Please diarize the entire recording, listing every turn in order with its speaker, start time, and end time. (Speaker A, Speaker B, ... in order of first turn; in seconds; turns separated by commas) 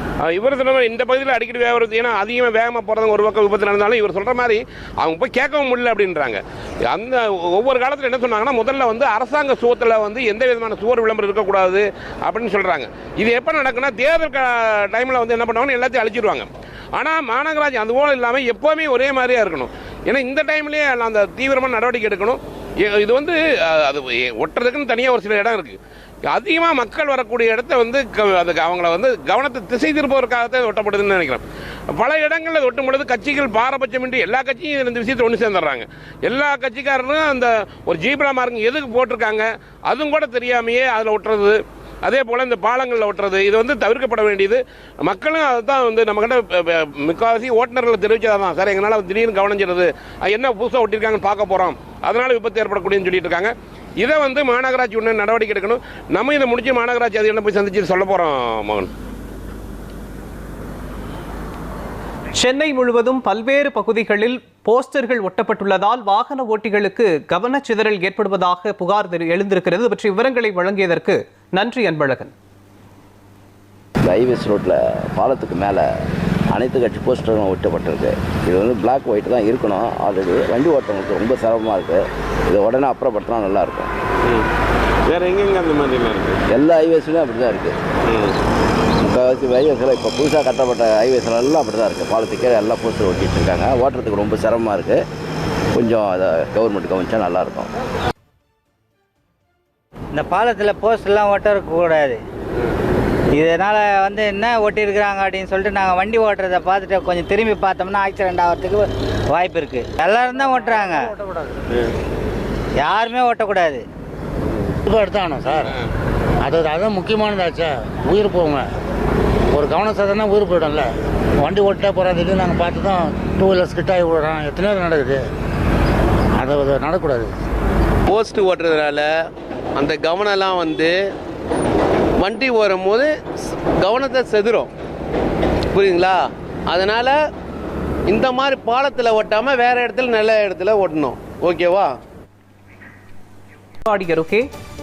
Speaker A: 0.2-25.8, Speaker A: 26.3-58.9, Speaker B: 62.4-72.3, Speaker C: 74.0-75.8, Speaker C: 76.5-83.9, Speaker A: 84.2-84.5, Speaker A: 85.1-86.4, Speaker C: 86.5-87.8, Speaker A: 88.0-88.4, Speaker C: 89.0-95.0, Speaker C: 95.7-97.7, Speaker D: 100.1-102.2, Speaker D: 103.4-111.1, Speaker E: 110.6-110.9, Speaker D: 112.8-113.8, Speaker E: 114.8-115.7, Speaker E: 116.4-118.7, Speaker E: 119.5-125.2, Speaker E: 126.4-127.3, Speaker F: 128.1-129.0, Speaker F: 129.8-130.9, Speaker F: 132.2-133.1, Speaker F: 133.8-134.7, Speaker F: 135.7-136.2, Speaker F: 136.7-137.1, Speaker F: 138.1-141.8, Speaker B: 143.9-144.4